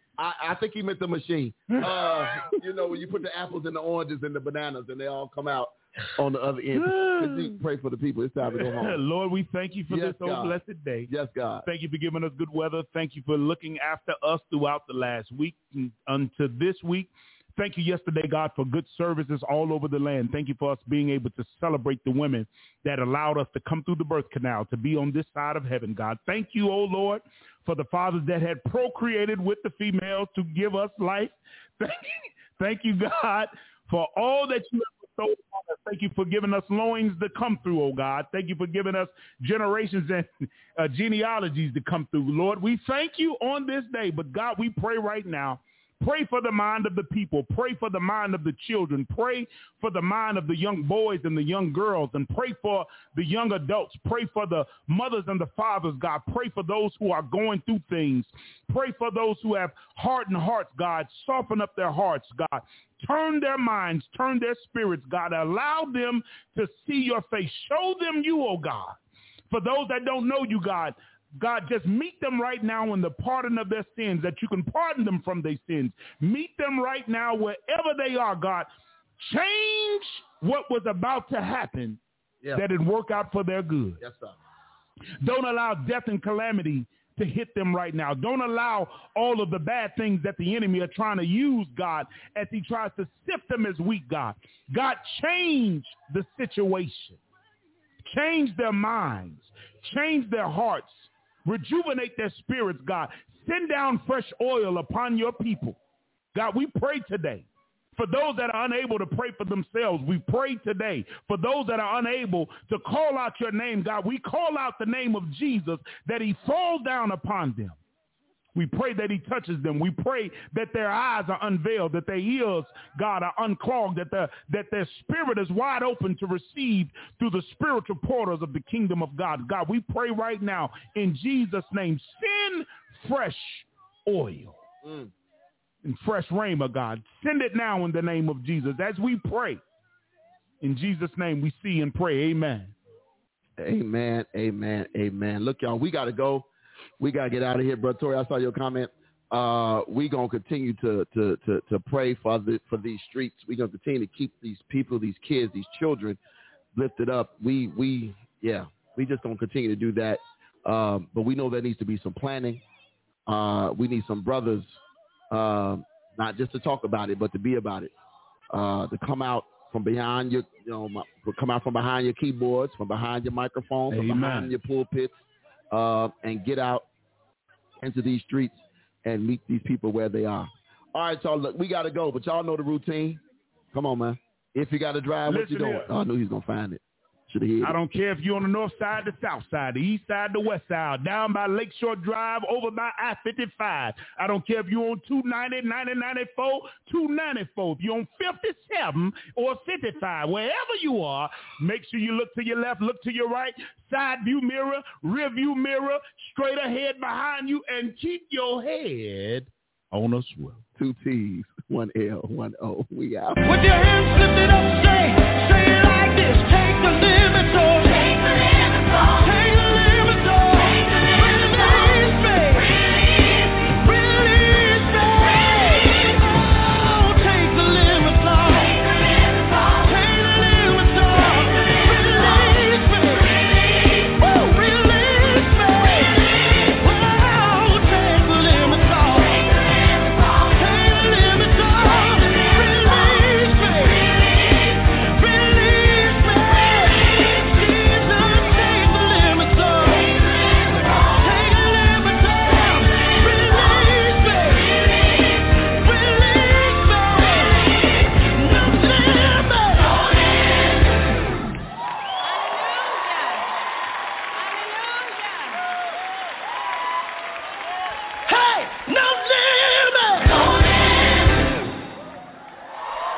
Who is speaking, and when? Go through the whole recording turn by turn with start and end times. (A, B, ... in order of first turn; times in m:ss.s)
0:00.2-0:09.0 A
0:01.8-0:02.6 B
0:06.8-0:07.6 B
0:08.5-0:11.1 B
0:09.9-0:11.7 A
0:11.6-1:09.0 B
1:09.5-1:18.7 B
1:19.2-1:22.0 B
1:22.5-1:24.0 B
1:24.0-1:24.4 A
1:25.2-1:37.2 B
1:38.1-1:45.8 B
1:46.3-1:57.8 B
1:58.6-2:14.6 B
2:14.8-2:15.1 A
2:15.8-2:19.6 B
2:20.6-2:22.7 B
2:23.6-2:26.5 A
2:27.0-2:36.2 A
2:36.7-2:42.6 A
2:43.3-2:44.8 A
2:45.3-2:47.9 A
2:48.5-2:56.8 A
2:53.9-2:54.6 B
2:57.8-3:03.2 A
3:03.7-3:07.8 A
3:05.3-3:05.9 B
3:07.6-3:30.6 B
3:30.8-3:33.4 A
3:33.4-3:42.8 C
3:43.7-3:49.1 C
3:49.6-3:53.4 C
3:54.0-4:04.4 C
4:05.1-4:20.0 C
4:22.6-4:23.2 C
4:24.5-4:25.4 C
4:28.3-4:30.4 C